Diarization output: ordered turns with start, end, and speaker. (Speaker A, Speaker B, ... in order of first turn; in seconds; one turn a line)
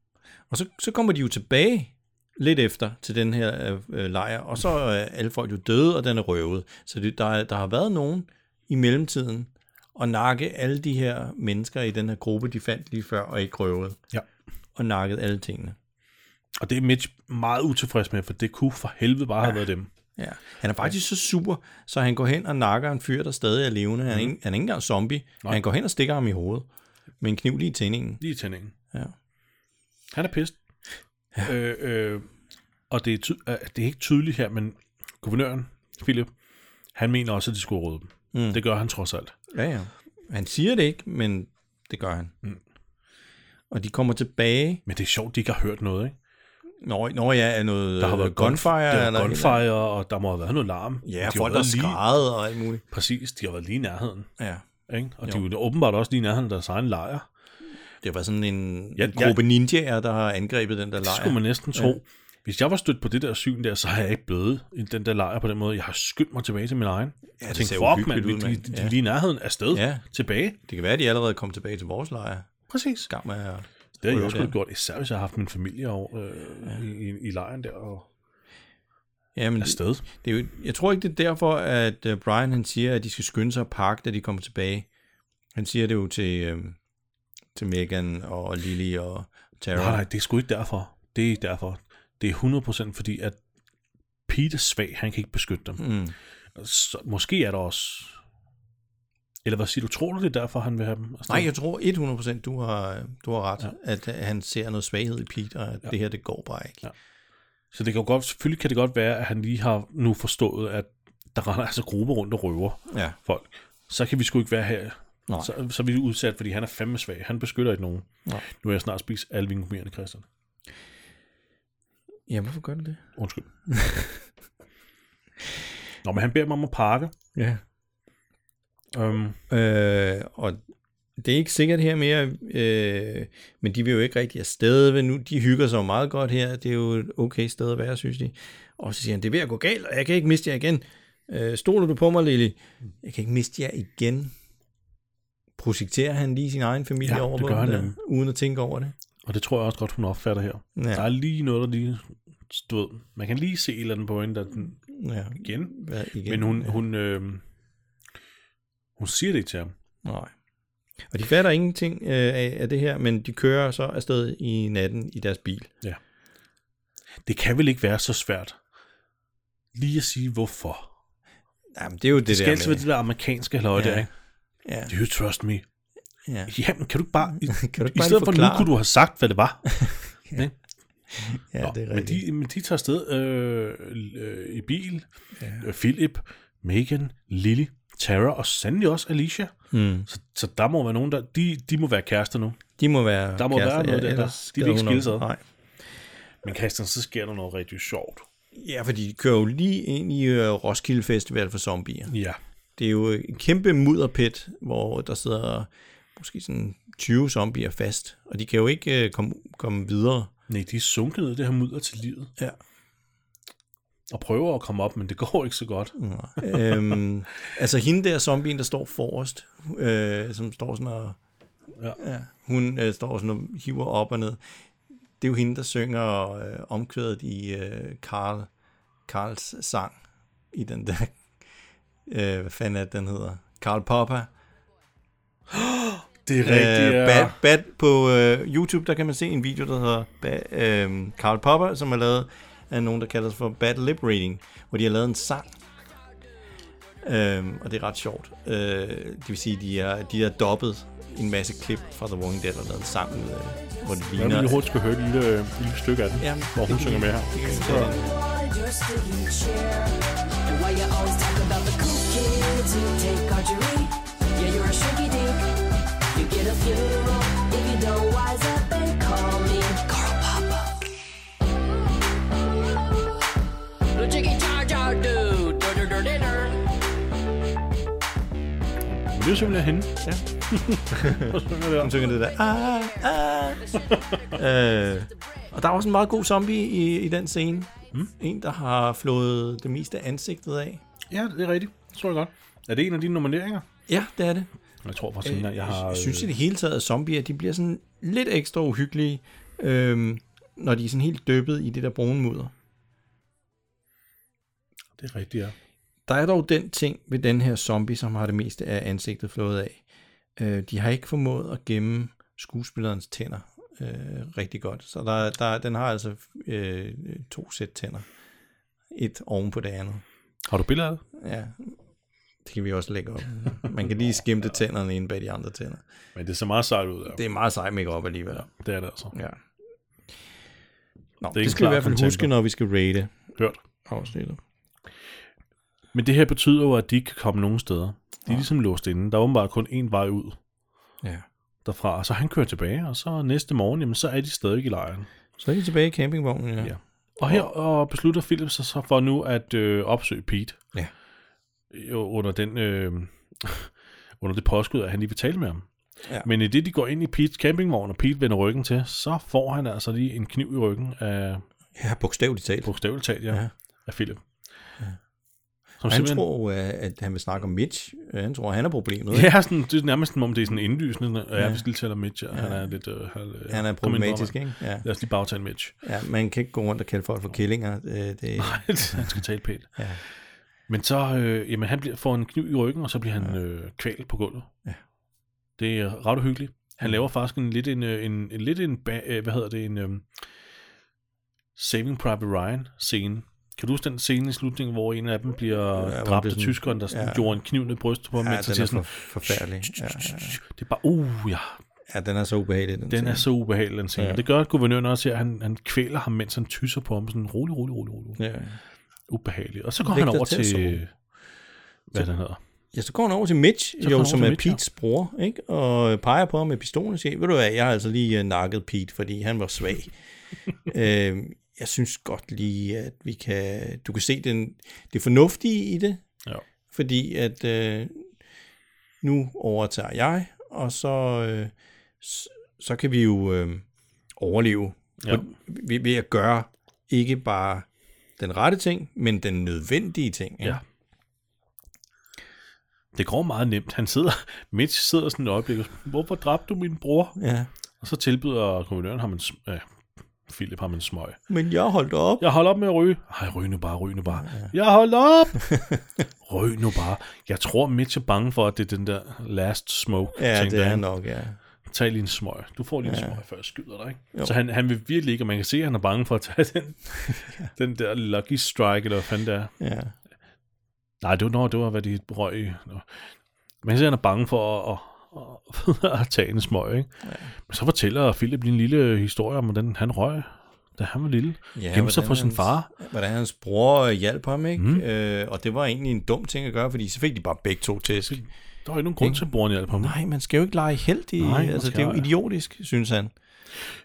Speaker A: 0.5-14.0
Speaker A: 14.8-15.8
Speaker B: 16.6-19.9
Speaker A: 20.2-26.7
Speaker A: 27.2-28.2
Speaker B: 28.2-28.7
Speaker B: 30.1-30.6
Speaker B: 31.4-32.3
Speaker B: 32.9-36.3
Speaker B: 36.9-39.3
Speaker A: 38.3-38.6
Speaker A: 39.5-42.3
Speaker A: 43.7-44.8
Speaker B: 44.9-46.1
Speaker A: 46.8-49.6
Speaker B: 48.0-52.0
Speaker A: 51.0-52.8
Speaker B: 52.9-54.3
Speaker A: 54.4-54.6
Speaker B: 54.9-57.2
Speaker A: 58.0-62.0
Speaker B: 59.0-59.4
Speaker B: 61.0-70.6
Speaker A: 67.4-68.9
Speaker A: 69.7-70.0
Speaker A: 70.6-72.5
Speaker B: 72.7-73.1
Speaker A: 73.1-74.5
Speaker B: 74.0-78.1
Speaker A: 79.3-84.9
Speaker B: 79.6-80.0
Speaker A: 85.5-86.8
Speaker A: 87.5-90.0
Speaker B: 89.7-93.4
Speaker B: 94.3-95.8
Speaker A: 95.8-96.1
Speaker B: 96.5-98.2
Speaker B: 99.4-101.5
Speaker A: 101.3-106.8
Speaker B: 107.7-120.2
Speaker A: 112.9-113.2
Speaker A: 122.3-123.0
Speaker B: 123.2-123.9
Speaker A: 123.7-124.1
Speaker B: 126.0-127.1
Speaker A: 127.3-127.6
Speaker B: 128.9-129.4
Speaker A: 129.5-130.6
Speaker A: 131.2-144.3
Speaker A: 145.6-148.9
Speaker B: 147.0-148.0
Speaker B: 149.2-154.8
Speaker A: 150.8-151.1
Speaker A: 154.9-156.8
Speaker B: 155.4-155.7
Speaker B: 156.2-157.4
Speaker B: 159.0-159.7
Speaker A: 160.0-160.3
Speaker A: 161.1-165.7
Speaker B: 167.2-168.6
Speaker B: 169.7-170.9
Speaker A: 171.7-172.8
Speaker B: 172.2-174.1
Speaker A: 173.7-174.1
Speaker A: 174.6-174.9
Speaker B: 174.9-175.6
Speaker A: 176.2-176.5
Speaker B: 176.5-180.5
Speaker A: 177.3-178.7
Speaker A: 179.7-180.4
Speaker A: 181.1-182.2
Speaker B: 181.6-185.1
Speaker A: 185.4-185.6
Speaker B: 185.6-189.5
Speaker A: 189.7-190.1
Speaker B: 190.1-192.6
Speaker A: 192.8-195.4
Speaker B: 193.4-195.3
Speaker B: 196.4-198.3
Speaker A: 198.5-202.1
Speaker B: 202.1-202.4
Speaker A: 202.8-210.3
Speaker B: 210.5-212.3
Speaker B: 214.1-216.9
Speaker A: 216.0-221.2
Speaker A: 222.0-224.4
Speaker A: 225.2-228.5
Speaker A: 229.1-229.9
Speaker A: 230.5-231.1
Speaker A: 232.1-234.3
Speaker B: 235.5-237.4
Speaker A: 236.4-245.5
Speaker A: 247.0-254.6
Speaker B: 254.1-257.9
Speaker A: 256.2-258.2
Speaker C: 257.4-265.5
Speaker C: 266.1-270.9
Speaker C: 273.9-276.5
Speaker B: 278.8-279.9
Speaker A: 279.4-280.2
Speaker B: 280.5-282.0
Speaker A: 280.8-283.6
Speaker C: 283.9-284.4
Speaker A: 284.3-290.8
Speaker B: 291.1-293.7
Speaker A: 293.9-294.5
Speaker B: 294.8-296.3
Speaker A: 295.2-302.5
Speaker B: 305.0-305.5
Speaker A: 306.1-309.8
Speaker A: 310.4-318.1
Speaker A: 318.9-320.0
Speaker B: 320.4-321.0
Speaker A: 321.1-321.8
Speaker A: 322.4-325.8
Speaker B: 326.1-327.2
Speaker A: 327.1-328.5
Speaker B: 328.3-329.1
Speaker A: 329.1-329.4
Speaker A: 331.2-333.1
Speaker B: 331.3-332.3
Speaker A: 333.9-334.4
Speaker B: 335.9-340.4
Speaker B: 341.6-345.1
Speaker A: 345.4-347.5
Speaker B: 346.6-350.6
Speaker B: 351.7-355.7
Speaker B: 356.2-361.4
Speaker A: 361.8-362.7
Speaker B: 362.6-364.2
Speaker B: 365.8-366.2
Speaker A: 365.9-369.3
Speaker B: 369.1-375.8
Speaker A: 371.3-371.6
Speaker A: 372.3-372.7
Speaker A: 373.5-374.8
Speaker A: 375.8-379.1
Speaker B: 378.4-379.8
Speaker A: 379.8-380.0
Speaker B: 380.7-384.5
Speaker B: 385.6-390.1
Speaker B: 391.6-401.6
Speaker A: 395.7-397.3
Speaker A: 398.2-400.4
Speaker A: 401.9-403.3
Speaker B: 402.9-408.2
Speaker A: 403.9-404.2
Speaker A: 408.2-408.6
Speaker B: 409.1-410.9
Speaker A: 409.8-410.8
Speaker B: 411.9-412.4
Speaker A: 412.7-419.9
Speaker B: 413.8-414.6
Speaker A: 420.6-426.0
Speaker A: 426.7-428.1
Speaker A: 429.0-433.6
Speaker A: 434.2-437.7
Speaker B: 435.0-435.3
Speaker A: 438.2-440.6
Speaker B: 442.9-447.2
Speaker A: 447.2-447.5
Speaker B: 447.8-449.6
Speaker B: 450.2-451.2
Speaker A: 451.3-452.2
Speaker B: 452.2-455.5
Speaker A: 454.1-454.5
Speaker A: 455.4-456.0
Speaker B: 456.2-460.8
Speaker A: 460.1-461.4
Speaker B: 461.6-469.5
Speaker A: 462.8-463.2
Speaker A: 467.1-467.5
Speaker A: 469.6-469.9
Speaker B: 471.0-473.1
Speaker B: 473.6-476.9
Speaker A: 477.0-477.3
Speaker B: 477.5-482.7
Speaker A: 481.5-488.2
Speaker B: 484.6-484.8
Speaker B: 488.1-489.9
Speaker A: 489.0-493.1
Speaker B: 491.2-492.1